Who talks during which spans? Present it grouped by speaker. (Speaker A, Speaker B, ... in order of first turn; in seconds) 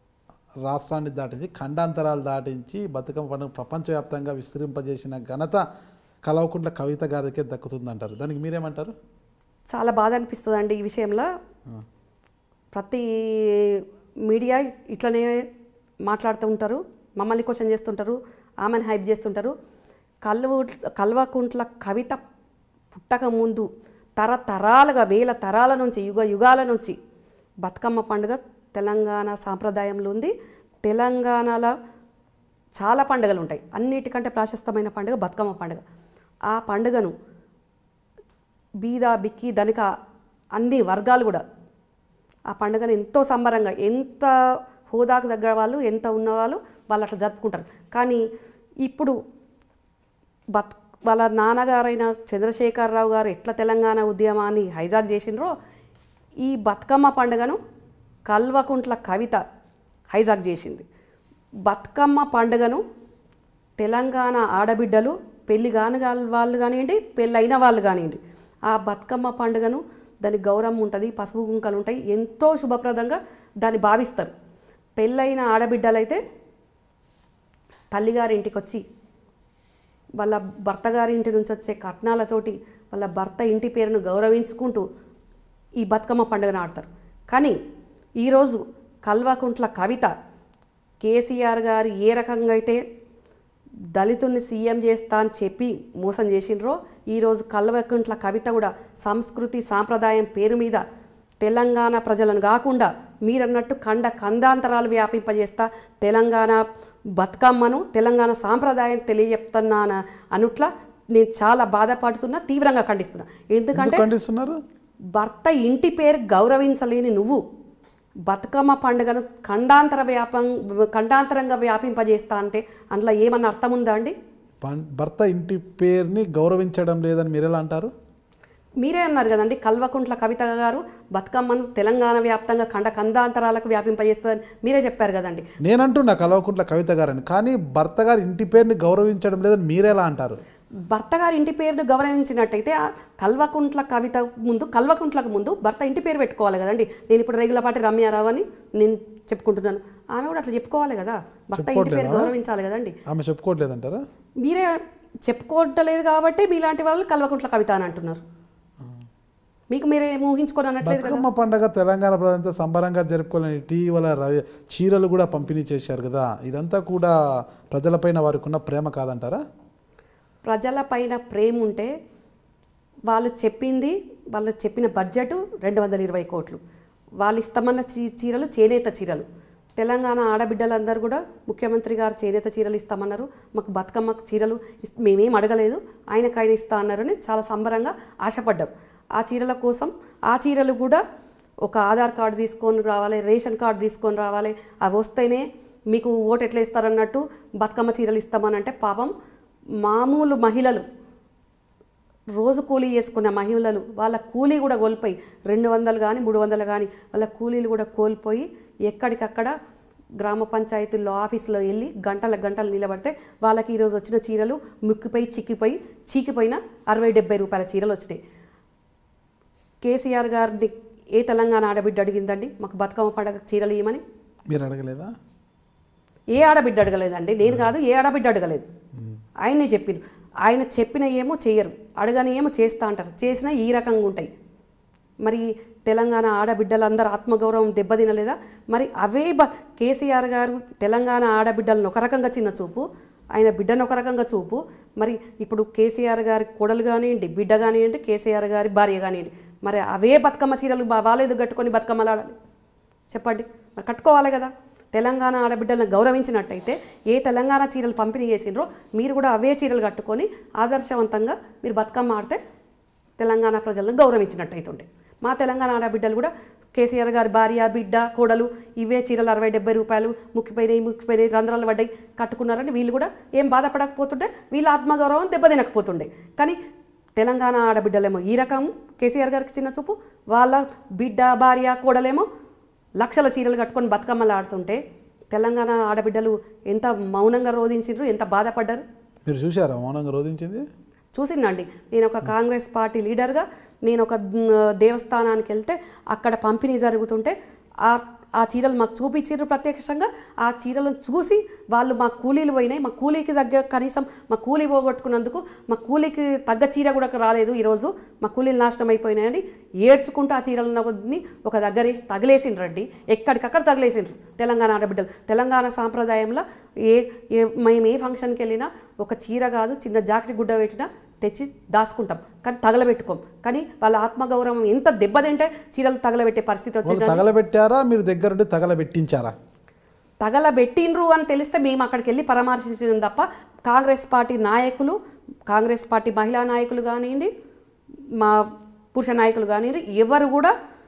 Speaker A: 0.7-5.6, 6.3-8.9, 113.8-114.6, 124.6-127.9, 135.6-140.4, 151.6-152.3, 153.1-154.0, 160.8-167.2, 167.7-169.4, 224.5-225.1, 289.3-290.6, 326.9-329.3
Speaker B: 9.7-11.3, 12.7-15.5, 16.1-19.5, 20.2-22.2, 22.9-27.0, 27.6-30.3, 30.9-31.7, 32.8-35.8, 36.5-37.1, 38.8-39.9, 40.6-41.4, 42.5-44.3, 44.9-48.2, 48.8-49.2, 50.5-55.5, 56.4-57.6, 58.3-59.4, 60.1-60.9, 61.7-62.8, 63.8-74.3, 75.0-76.2, 77.9-78.8, 80.2-84.8, 85.8-87.6, 88.2-90.1, 91.0-92.8, 94.0-100.8, 101.4-106.6, 107.2-114.1, 115.2-117.4, 118.3-124.2, 128.8-135.4, 140.9-153.0, 154.4-158.2, 159.7-161.2, 170.4-171.9, 173.1-176.6, 177.2-179.2, 179.8-191.0, 191.7-199.1, 199.8-200.8, 202.4-209.5, 210.2-218.2, 219.8-224.0, 226.3-228.7, 229.4-234.3, 235.2-252.4, 253.1-262.4, 263.2-276.6, 277.2-282.3, 283.0-284.8, 285.3-288.8, 291.1-327.2, 330.2-335.0, 335.5-337.3, 338.2-340.5